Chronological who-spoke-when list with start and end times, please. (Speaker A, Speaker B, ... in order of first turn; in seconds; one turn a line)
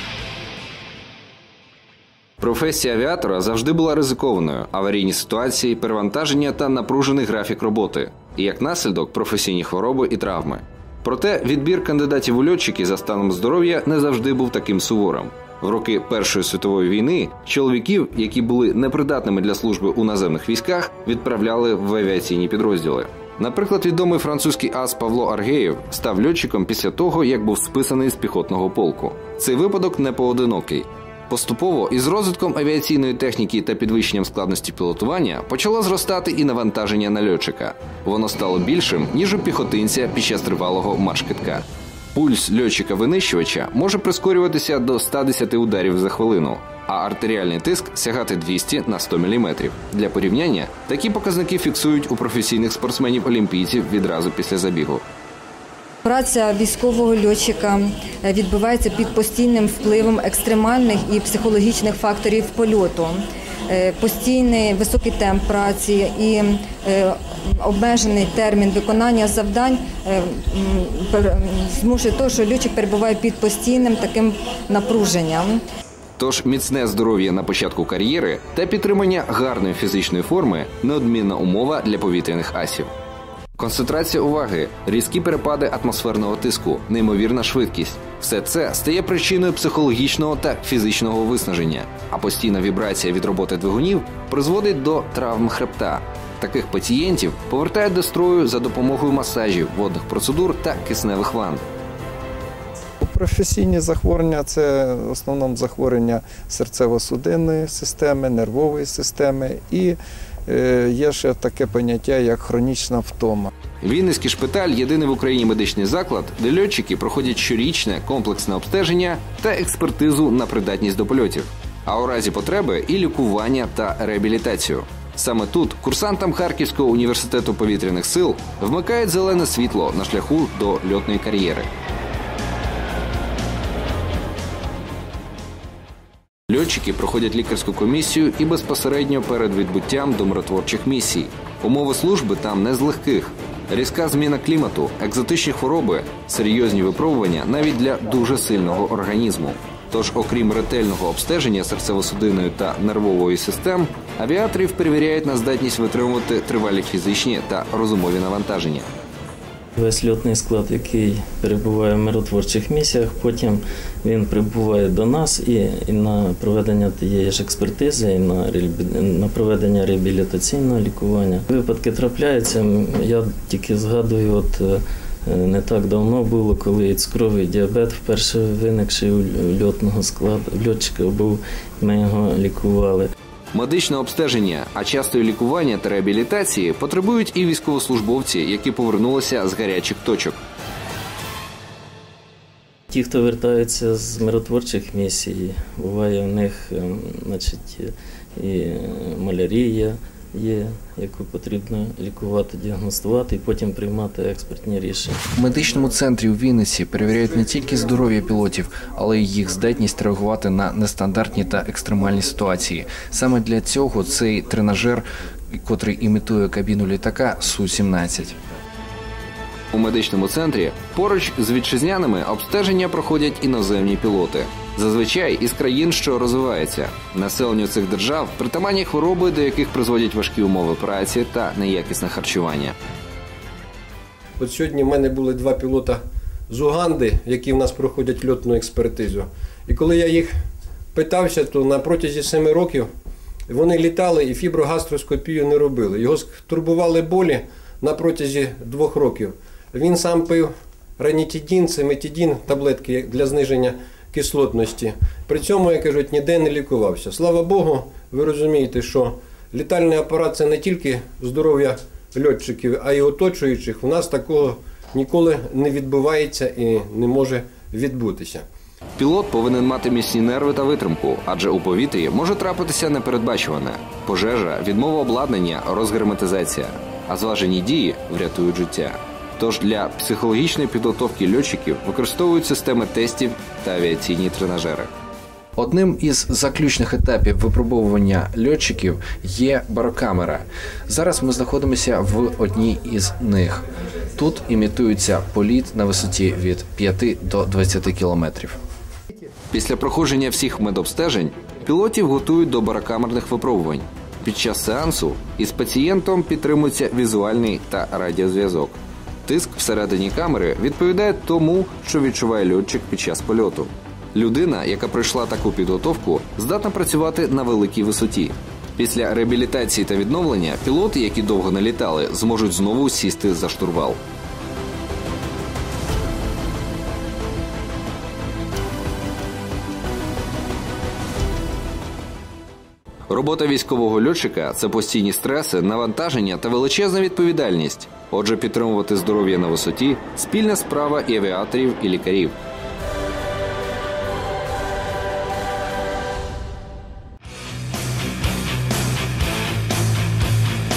Speaker A: 2.4-55.0
Speaker B: 56.0-75.6
Speaker A: 76.2-82.9
Speaker A: 83.6-101.7
Speaker C: 103.0-113.5
Speaker A: 113.8-131.7
Speaker A: 136.5-158.9
Speaker D: 159.8-183.1
Speaker A: 183.5-190.4
Speaker D: 192.9-205.3
Speaker E: 205.3-218.4
Speaker A: 219.7-232.8
Speaker F: 234.4-240.4
Speaker F: 240.9-242.9
Speaker F: 243.5-268.5
Speaker A: 269.0-284.9
Speaker E: 285.6-293.6
Speaker E: 294.2-298.6
Speaker A: 299.5-324.0
Speaker A: 333.1-342.4